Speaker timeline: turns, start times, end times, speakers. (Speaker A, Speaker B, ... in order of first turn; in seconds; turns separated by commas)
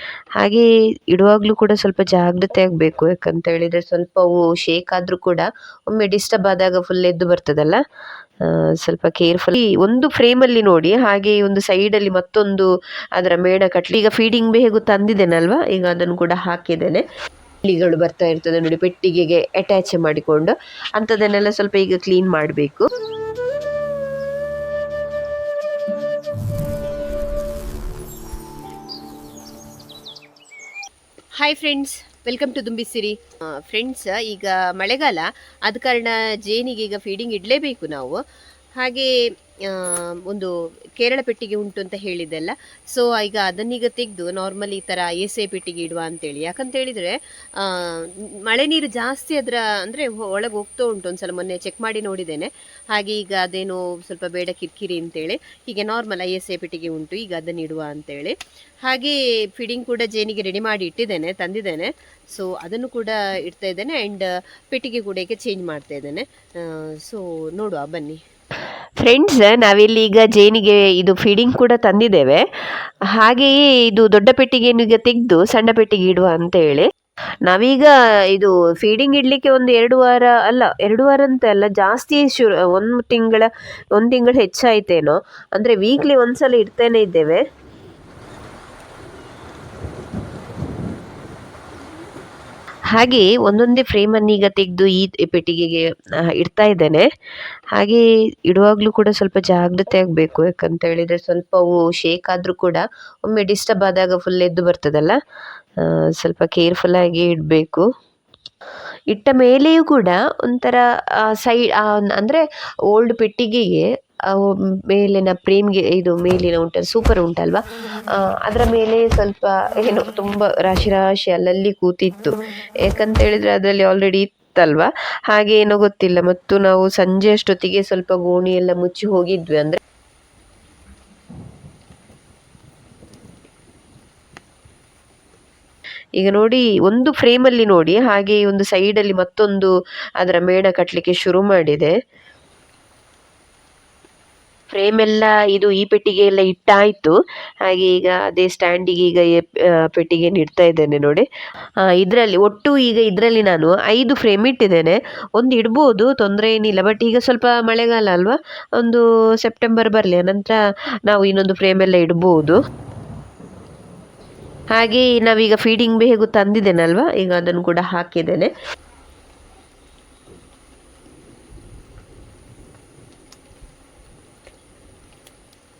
Speaker A: 0.4-7.8, Speaker A: 8.5-17.1, Speaker A: 17.6-22.9, Speaker A: 31.5-33.0, Speaker B: 32.0-32.4, Speaker B: 33.7-36.1, Speaker A: 34.1-35.1, Speaker A: 35.8-37.0, Speaker B: 36.6-38.2, Speaker B: 41.0-47.1, Speaker A: 41.0-42.5, Speaker A: 43.1-44.2, Speaker A: 45.3-45.9, Speaker B: 48.5-58.3, Speaker A: 48.6-49.0, Speaker A: 51.1-51.8, Speaker A: 53.2-53.4, Speaker A: 54.1-54.5, Speaker A: 55.1-58.2, Speaker B: 58.9-66.2, Speaker A: 60.5-60.8, Speaker B: 67.1-68.2, Speaker A: 69.0-72.4, Speaker A: 73.1-76.9, Speaker A: 77.5-87.4, Speaker A: 92.9-97.0, Speaker A: 97.7-105.2, Speaker A: 105.8-107.8, Speaker A: 109.1-129.8, Speaker A: 136.2-141.9, Speaker A: 144.7-147.2, Speaker A: 147.7-151.2, Speaker A: 151.8-162.6, Speaker A: 164.7-168.5